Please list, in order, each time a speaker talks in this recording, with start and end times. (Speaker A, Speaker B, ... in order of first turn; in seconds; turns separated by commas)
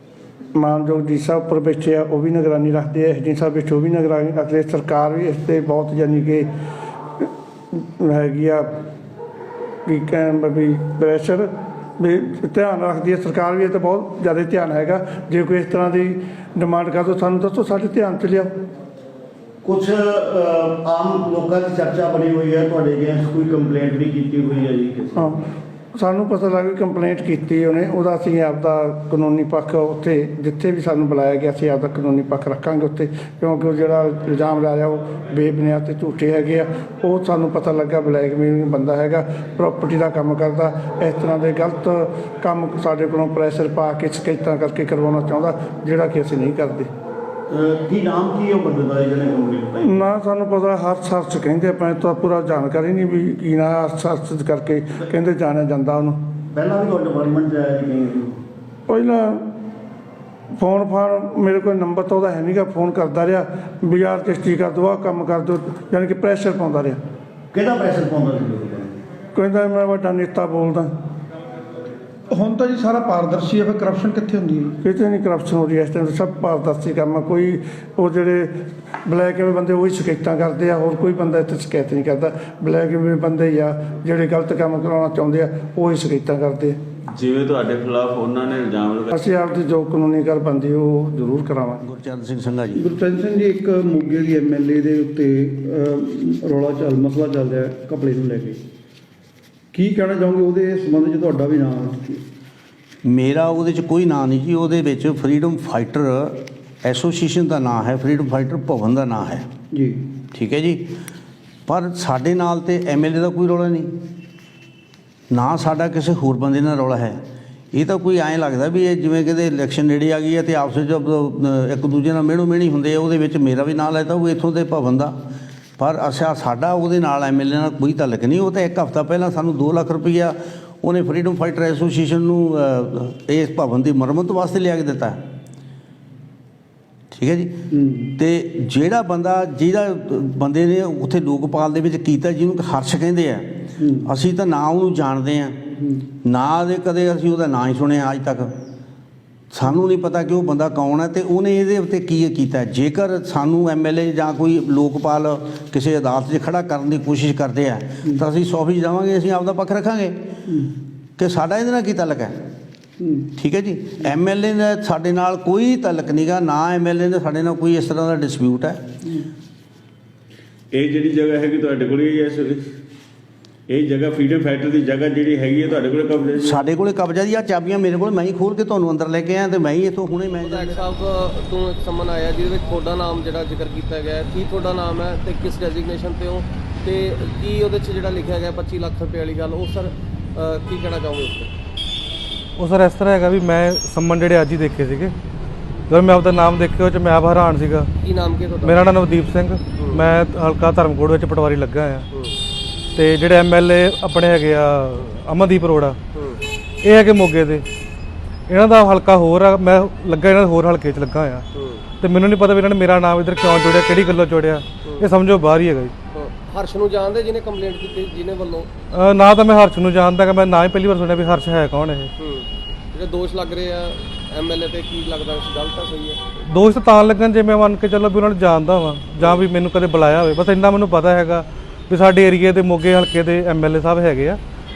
Speaker A: 0.5-6.5, Speaker A: 7.2-8.7, Speaker A: 9.8-18.5, Speaker B: 19.6-25.4, Speaker A: 25.9-46.9, Speaker B: 47.5-50.0, Speaker A: 49.8-56.2, Speaker B: 56.5-58.4, Speaker A: 58.9-59.5, Speaker A: 60.5-67.0, Speaker B: 67.5-69.0, Speaker A: 69.3-70.9, Speaker C: 72.3-74.8, Speaker A: 74.8-78.5, Speaker A: 79.0-86.8, Speaker D: 87.1-89.1, Speaker A: 89.1-91.8, Speaker E: 91.8-92.9, Speaker C: 92.8-98.6, Speaker C: 99.7-102.2, Speaker E: 103.0-109.5, Speaker C: 109.7-110.0, Speaker E: 110.3-110.9, Speaker E: 111.7-113.9, Speaker E: 115.3-117.2, Speaker E: 117.7-125.2, Speaker E: 125.8-135.2, Speaker E: 137.1-137.6, Speaker C: 137.7-138.1, Speaker E: 138.2-145.6, Speaker C: 143.8-144.1, Speaker C: 145.8-146.0, Speaker E: 146.2-148.5, Speaker E: 149.5-160.3, Speaker C: 160.5-160.7, Speaker E: 161.2-162.4, Speaker C: 163.0-163.3, Speaker E: 163.3-168.8, Speaker D: 170.7-172.6, Speaker D: 173.7-176.6, Speaker E: 176.4-180.8, Speaker F: 180.4-191.5, Speaker G: 192.6-195.1, Speaker G: 195.9-197.9, Speaker F: 198.0-198.7, Speaker G: 198.6-202.1, Speaker F: 199.8-200.0, Speaker G: 202.9-206.0, Speaker F: 206.1-206.4, Speaker G: 206.8-207.6, Speaker G: 208.5-211.4, Speaker F: 211.5-211.8, Speaker G: 212.0-215.9, Speaker F: 216.1-218.7, Speaker G: 218.9-222.1, Speaker F: 222.2-226.2, Speaker G: 226.4-234.4